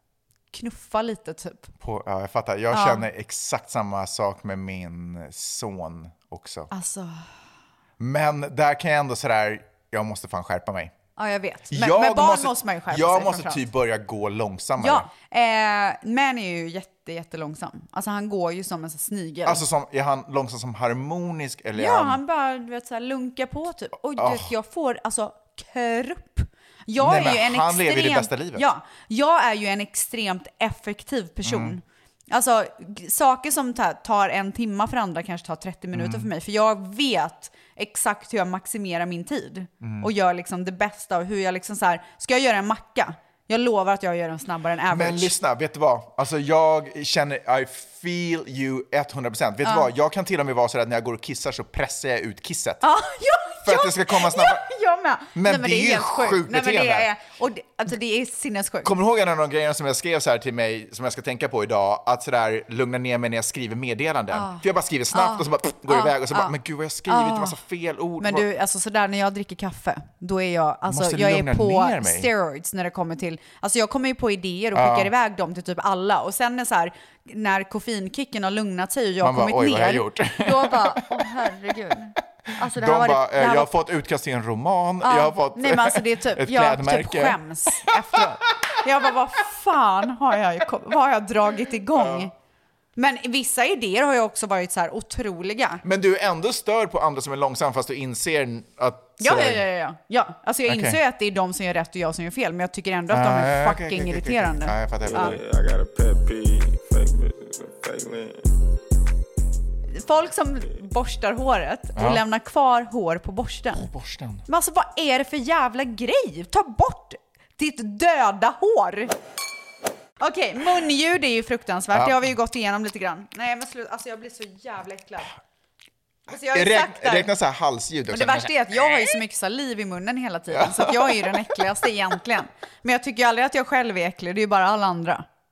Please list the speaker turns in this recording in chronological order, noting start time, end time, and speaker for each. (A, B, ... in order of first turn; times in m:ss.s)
0:00.5-0:01.7 A
0:01.8-0:06.7 B
0:02.7-0:03.0 A
0:06.7-0:07.2 A
0:08.0-0:10.9 B
0:11.2-0:13.6 A
0:11.7-0:15.1 B
0:14.8-0:19.6 A
0:19.4-0:22.2 B
0:21.8-0:45.3 A
0:24.1-0:24.5 B
0:27.0-0:28.6 B
0:31.4-0:31.8 B
0:35.9-0:36.3 B
0:39.8-0:40.1 B
0:44.9-0:52.8 B
0:52.8-0:58.9 A
0:53.6-0:54.6 B
0:55.3-0:57.1 B
0:58.8-1:08.5 B
1:04.3-1:06.5 A
1:07.1-1:07.6 A
1:08.2-1:23.8 A
1:10.9-1:12.3 B
1:14.7-1:15.1 B
1:19.2-1:21.3 B
1:22.6-1:28.2 B
1:25.0-1:32.3 A
1:31.9-1:32.3 B
1:33.0-1:35.8 A
1:35.8-1:39.6 B
1:39.2-1:45.4 A
1:40.6-1:41.0 B
1:43.1-1:45.4 B
1:45.1-1:48.4 C
1:49.9-1:53.9 A
1:52.0-1:52.2 B
1:53.7-1:54.4 B
1:54.4-1:59.1 A
2:00.2-2:05.3 A
2:01.9-2:02.3 B
2:06.3-2:07.3 A
2:06.5-2:09.0 B
2:08.1-2:15.2 A
2:10.5-2:11.6 B